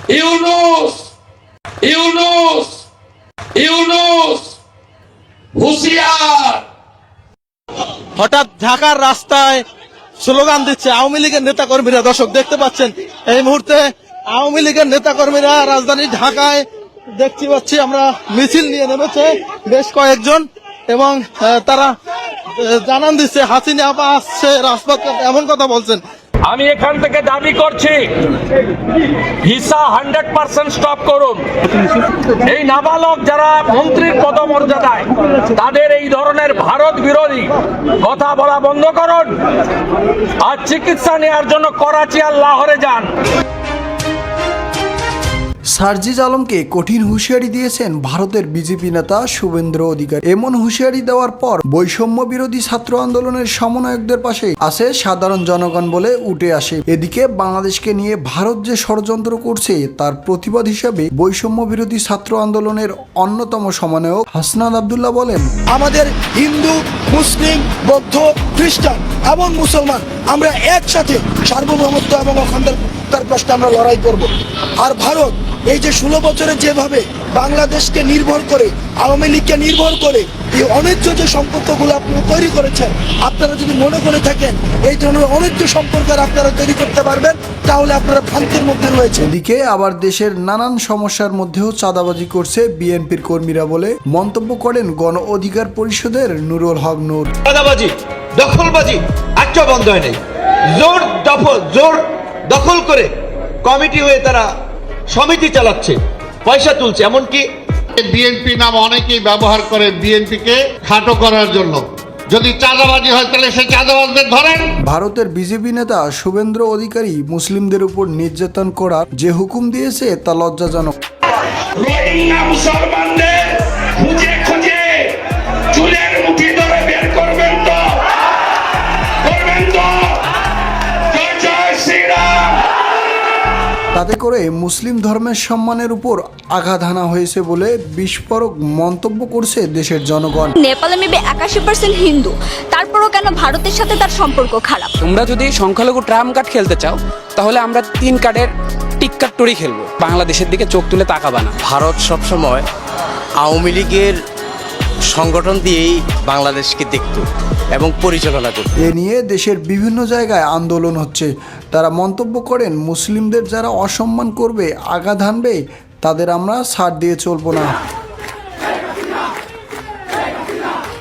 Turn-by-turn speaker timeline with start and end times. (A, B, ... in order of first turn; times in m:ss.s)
0:00.1-0:00.9 A
0:01.9-0:02.7 A
0:03.6-0:04.4 A
0:05.6-0:06.6 A
0:08.2-0:09.6 B
0:10.2-0:21.9 B
0:22.6-0:26.0 B
0:26.4-0:28.1 A
0:29.4-0:31.5 A
0:32.4-0:39.3 A
0:40.4-0:43.1 A
0:45.7-1:05.5 C
1:05.7-1:29.2 D
1:29.2-1:37.3 C
1:37.5-1:40.2 E
1:40.8-1:43.1 E
1:43.6-1:44.5 E
1:45.1-1:47.4 E
1:48.0-1:54.7 F
1:54.8-2:00.9 C
2:01.8-2:05.1 A
2:05.7-2:07.9 A
2:09.3-2:10.1 A
2:11.1-2:12.5 A
2:13.9-2:20.5 C
2:20.6-2:24.9 G
2:25.0-2:31.6 H
2:31.6-2:32.6 I
2:33.4-2:34.2 I
2:35.1-2:38.7 I
2:38.8-2:47.7 C